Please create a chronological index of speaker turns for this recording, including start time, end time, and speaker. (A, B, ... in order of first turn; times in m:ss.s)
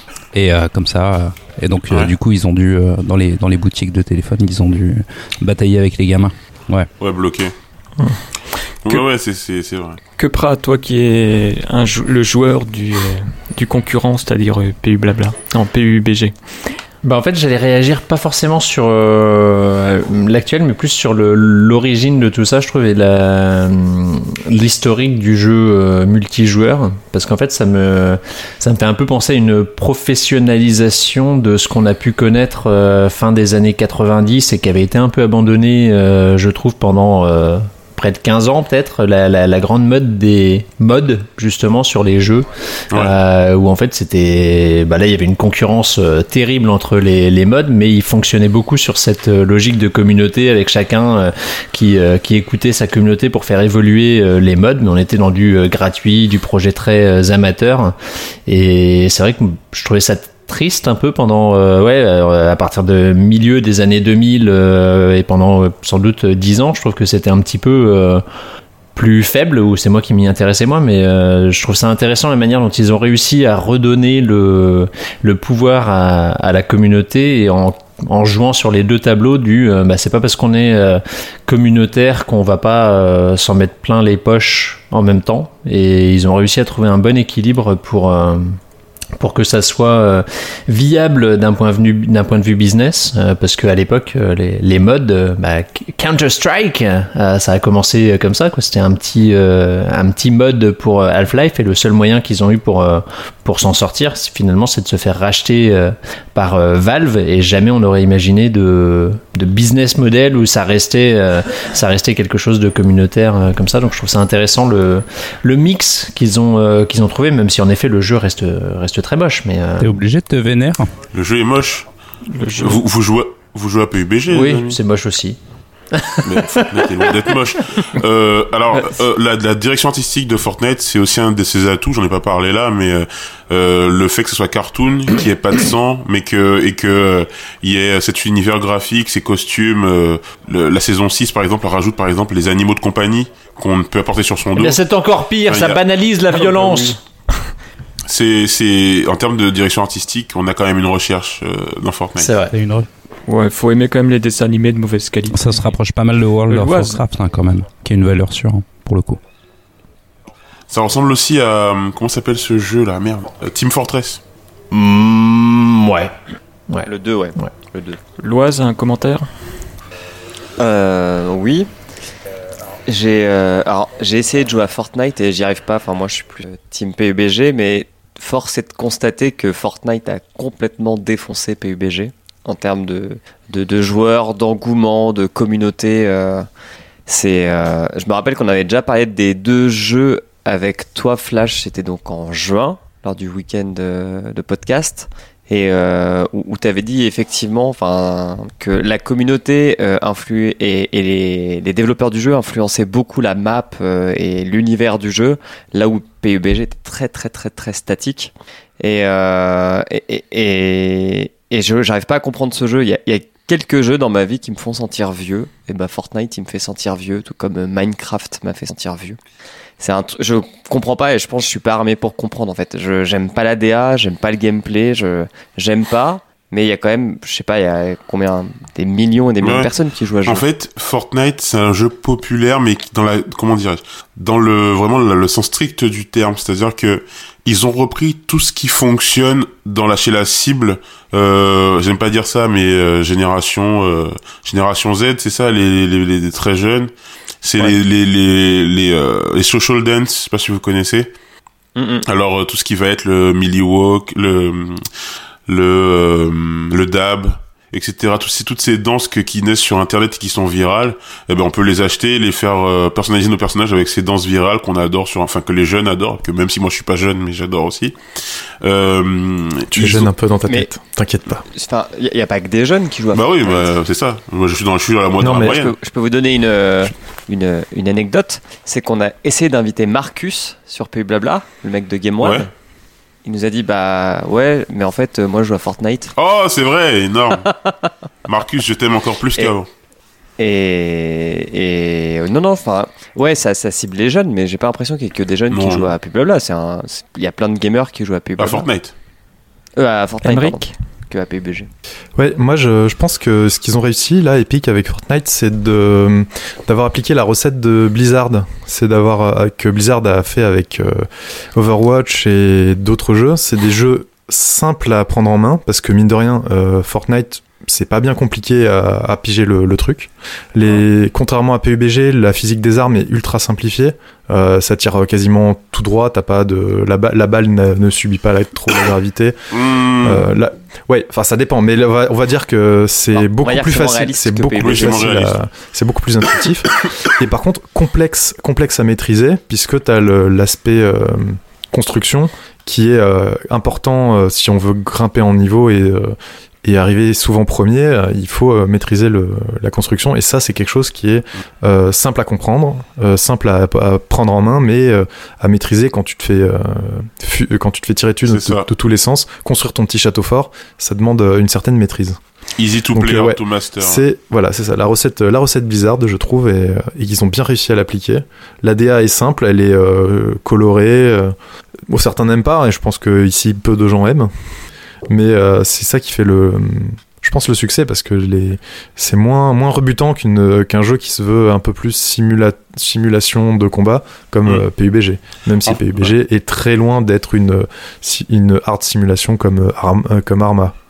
0:00.3-0:06.9 A
0:01.9-0:02.1 B
0:07.0-0:07.5 B
0:08.8-0:10.0 B
0:10.2-0:16.3 C
0:17.0-1:08.2 D
1:09.0-1:28.6 D
1:29.2-2:00.0 D
1:59.8-2:00.9 A
2:01.1-2:01.9 B
2:02.3-2:02.8 C
2:02.6-2:04.8 B
2:04.3-2:05.4 D
2:05.9-2:07.3 D
2:06.2-2:24.8 B
2:08.7-2:09.0 C
2:24.6-2:27.0 D
2:25.4-2:25.8 B
2:26.5-2:27.0 C
2:28.1-2:32.3 B
2:32.2-2:32.5 D
2:32.5-2:32.9 A
2:33.3-2:35.7 C
2:35.3-2:39.2 A
2:36.4-2:37.0 C
2:40.7-2:44.2 B
2:44.7-2:46.1 D
2:46.7-2:47.5 D
2:46.8-2:48.0 E
2:48.2-2:49.3 C
2:50.6-2:51.7 E
2:52.9-3:06.5 E
3:07.1-3:39.2 E
3:39.8-3:50.4 E
3:49.4-3:49.7 B
3:50.2-4:06.9 B
4:07.4-4:11.1 B
4:11.8-4:12.0 E
4:12.0-4:14.8 B
4:15.5-4:28.0 B
4:28.6-4:30.1 B
4:29.7-4:31.4 F
4:30.4-4:30.7 E
4:31.5-4:33.6 E
4:33.1-4:35.7 B
4:35.2-4:35.6 F
4:35.3-4:42.5 E
4:42.2-4:42.5 B
4:43.2-4:46.1 E
4:46.2-4:47.5 B
4:47.4-4:47.9 E
4:48.2-4:49.7 B
4:50.4-4:58.7 E
4:55.5-4:55.9 B
4:58.4-4:58.9 B
4:59.8-5:01.7 E
5:00.2-5:00.7 C
5:02.2-5:29.4 F
5:29.5-5:30.2 B
5:30.0-6:02.2 F
5:33.1-5:35.1 E
5:34.6-5:35.4 B
5:58.3-5:58.7 B
6:02.6-6:04.0 B
6:02.9-6:11.4 F
6:11.9-6:14.3 F
6:15.1-6:30.7 F
6:25.6-6:26.1 B